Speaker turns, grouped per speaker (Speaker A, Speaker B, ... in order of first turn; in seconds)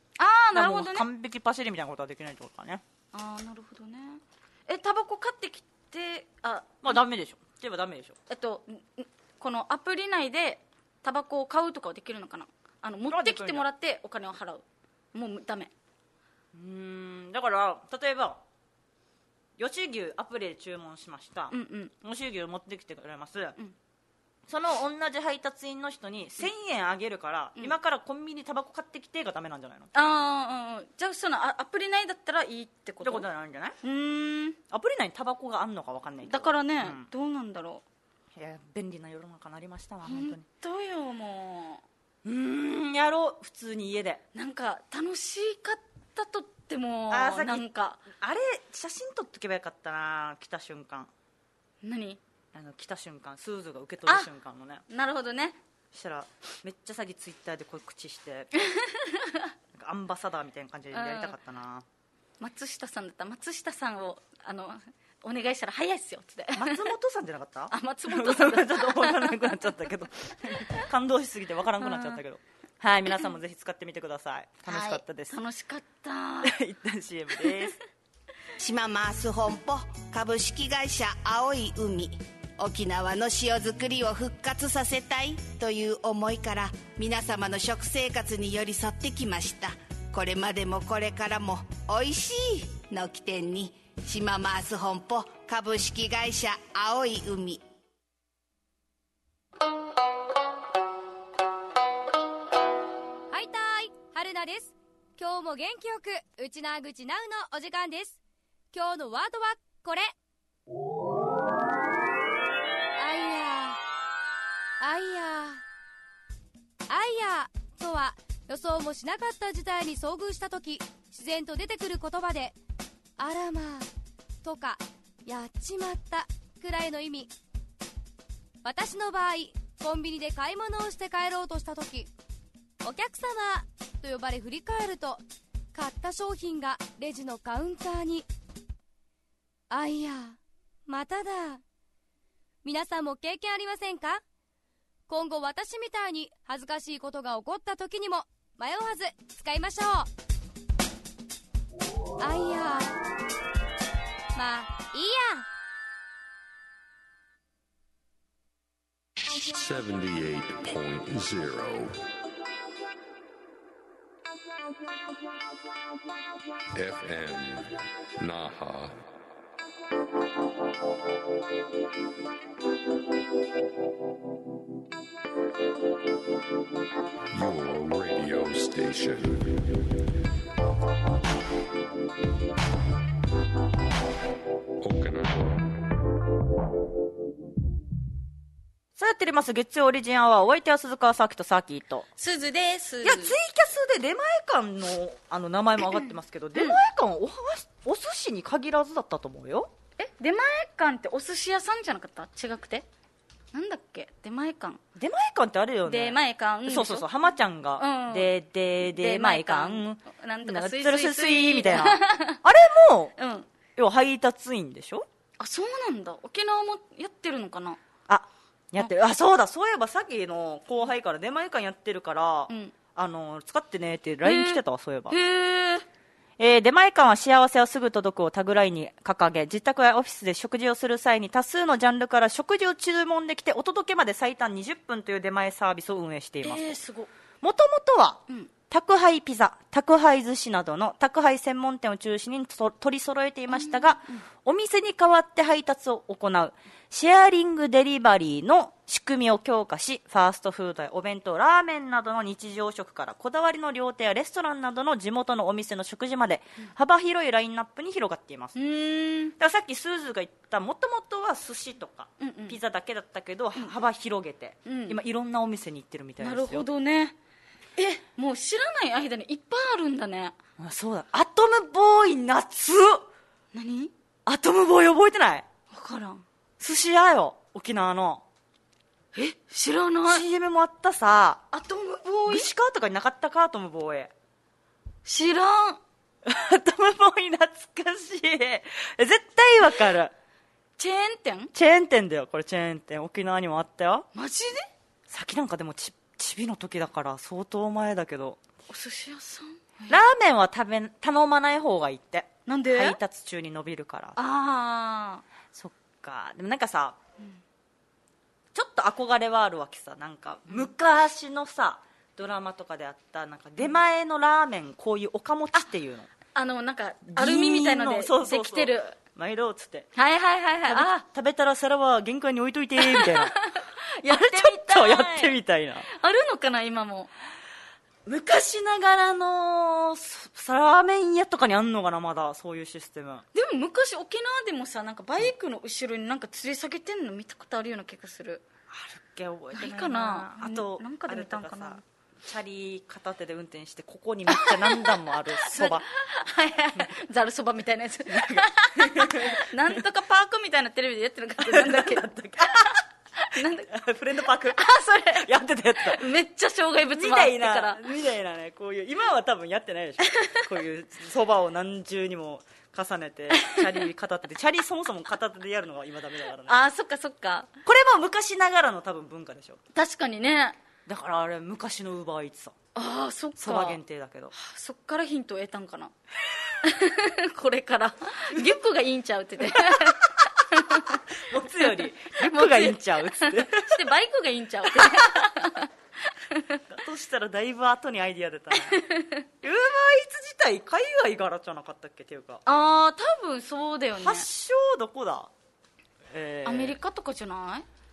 Speaker A: 0.2-1.1, 3.1-7.0, 8.3-15.7, 21.5-21.9, 29.9-33.3, 33.8-34.6, 36.2-37.8, 40.0-41.8, 44.4-48.0, 51.8-52.2, 54.9-55.6, 58.8-59.4, 60.9-61.4, 62.4-66.8, 67.7-69.7, 71.8-72.2, 74.7-76.6, 77.4-77.6, 192.2-193.4, 200.0-202.9, 203.5-204.8, 205.9-207.1, 207.8-212.4, 213.2-213.5, 215.4-217.8, 222.5-222.7, 224.2-225.8, 236.4-237.1, 243.5-244.2, 258.6-259.3, 262.2-262.6, 264.7-265.0, 266.2-267.2, 267.8-270.4, 273.5-273.9, 275.7-276.2, 279.1-280.3, 281.5-282.5, 285.1-285.8, 290.8-291.5, 294.1-294.7, 298.7-300.0, 302.5-303.0, 304.2-305.2, 316.4-319.0, 320.0-321.1, 322.8-325.4, 325.9-327.1, 333.3-338.4, 339.5-341.8, 344.3-353.7, 354.4-355.3, 355.9-357.8, 363.3-363.9, 366.5-367.5, 369.7-370.6, 372.8-373.8, 374.3-375.9, 376.6-381.0, 382.1-385.7, 386.3-386.6, 388.5-389.2, 392.4-394.3, 396.4-397.7
Speaker B: 0.5-2.8, 6.8-8.2, 13.1-13.7, 16.5-18.4, 19.6-23.6, 24.5-29.9, 33.0-33.8, 34.7-37.1, 38.3-40.5, 42.2-44.2, 47.1-51.1, 52.5-54.8, 55.9-58.7, 59.7-61.9, 66.5-75.4, 76.4-77.8, 189.0-192.1, 193.0-199.7, 204.9-213.2, 213.8-215.1, 218.1-225.2, 226.4-236.8, 237.4-258.6, 259.4-266.7, 270.6-273.1, 274.3-275.5, 276.6-278.2, 280.1-281.4, 282.3-284.1, 286.2-290.1, 291.5-294.1, 295.1-298.4, 299.9-304.2, 305.5-307.0, 308.5-316.1, 317.1-319.9, 320.7-323.4, 324.1-325.9, 328.1-333.2, 338.7-345.9, 348.1-349.8, 351.4-352.8, 353.4-356.1, 356.9-366.6, 367.6-369.6, 370.9-372.6, 373.4-374.3, 379.4-383.9, 384.6-385.4, 386.7-388.9, 389.4-392.4, 394.0-395.3, 396.1-396.8
Speaker C: 78.6-97.6
Speaker D: 103.3-108.2, 108.7-110.1, 113.0-113.8, 114.8-115.6, 116.9-122.6, 123.2-123.9, 124.4-127.3, 128.6-132.1, 132.8-135.2, 135.7-138.3, 139.7-141.6, 142.6-144.2, 145.1-150.1, 152.2-153.0, 154.3-155.5
Speaker E: 159.2-162.0, 166.8-169.0, 177.3-179.7, 184.8-185.7